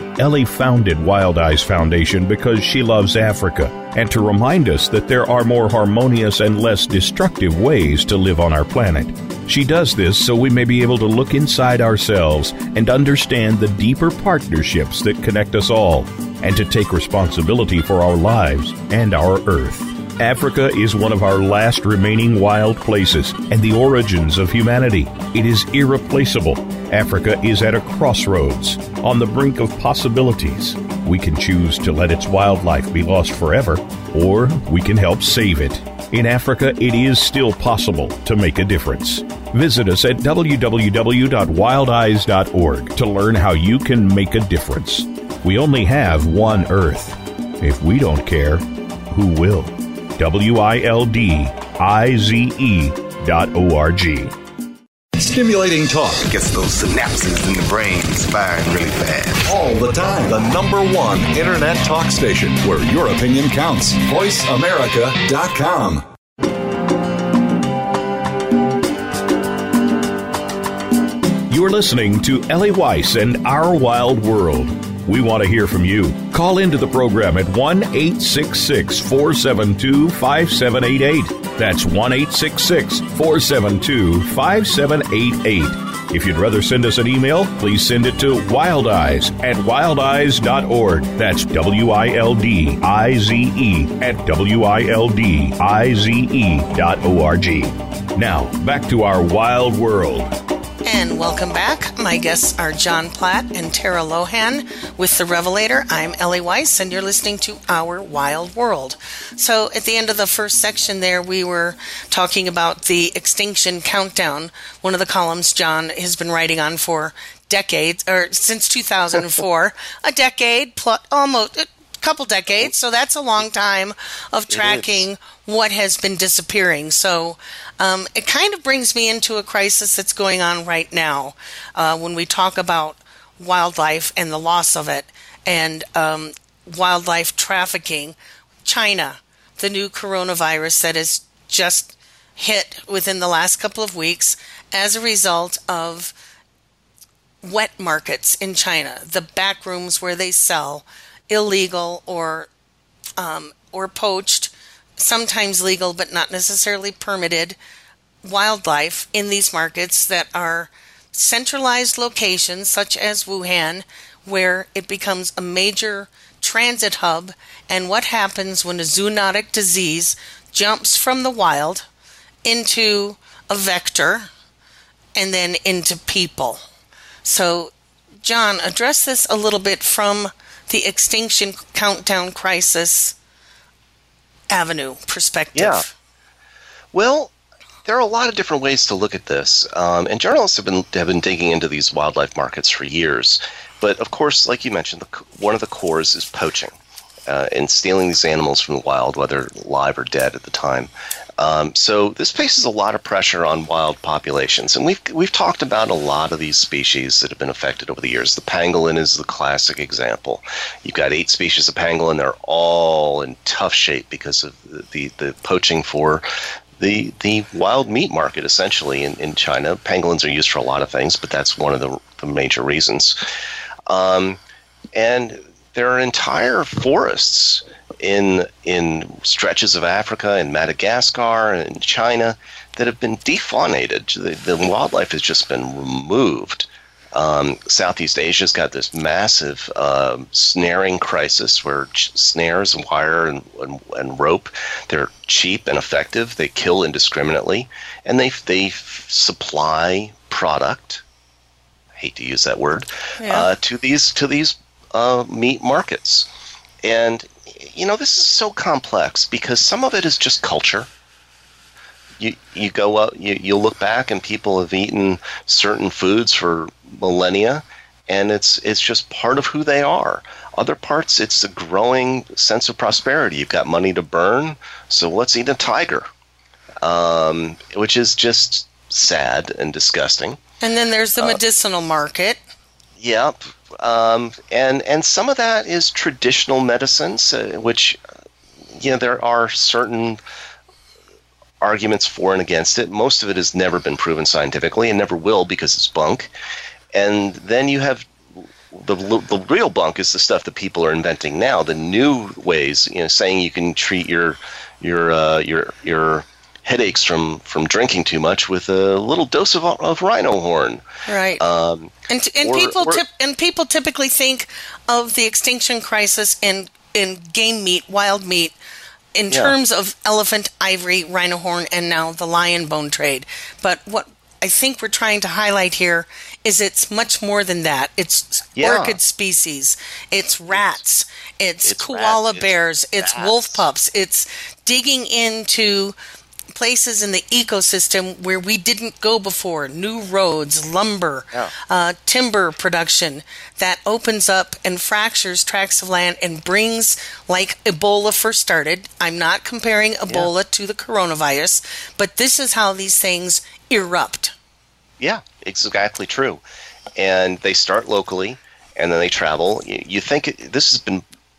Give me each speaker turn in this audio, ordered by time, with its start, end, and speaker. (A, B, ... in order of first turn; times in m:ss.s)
0:00.2-0:54.3 A
0:55.2-0:56.3 B
0:56.3-0:59.5 C
0:59.5-1:06.0 B
1:11.5-1:40.3 A
1:40.8-2:26.1 D
2:04.5-2:05.0 E
2:27.4-2:32.5 D
2:33.2-2:37.6 D
2:38.2-2:51.9 D
2:52.4-2:54.3 D
2:55.1-2:56.6 D
2:57.2-2:57.7 D
2:58.2-3:03.1 D
3:04.5-3:05.9 D
3:05.5-3:05.8 E
3:06.9-3:07.3 E
3:07.8-3:16.7 E
3:17.3-3:36.2 E
3:36.8-3:43.2 E
3:43.9-3:44.4 E
3:44.9-4:11.0 E
4:12.0-4:16.2 E
4:13.2-4:13.5 D
4:16.8-4:20.9 E
4:22.2-4:36.1 E
4:36.8-4:40.4 E
4:40.6-4:42.4 D
4:43.0-4:48.0 E
4:48.7-4:50.2 E
4:51.6-4:56.3 E
4:56.9-5:10.8 E
5:11.1-5:11.4 D
5:11.4-5:13.0 E
5:12.1-5:18.5 D
5:19.1-5:35.9 D
5:19.3-5:19.5 E
5:28.6-5:29.0 E
5:31.6-5:33.6 E
5:36.5-5:54.3 D
5:55.0-5:56.4 E
5:57.0-6:01.0 E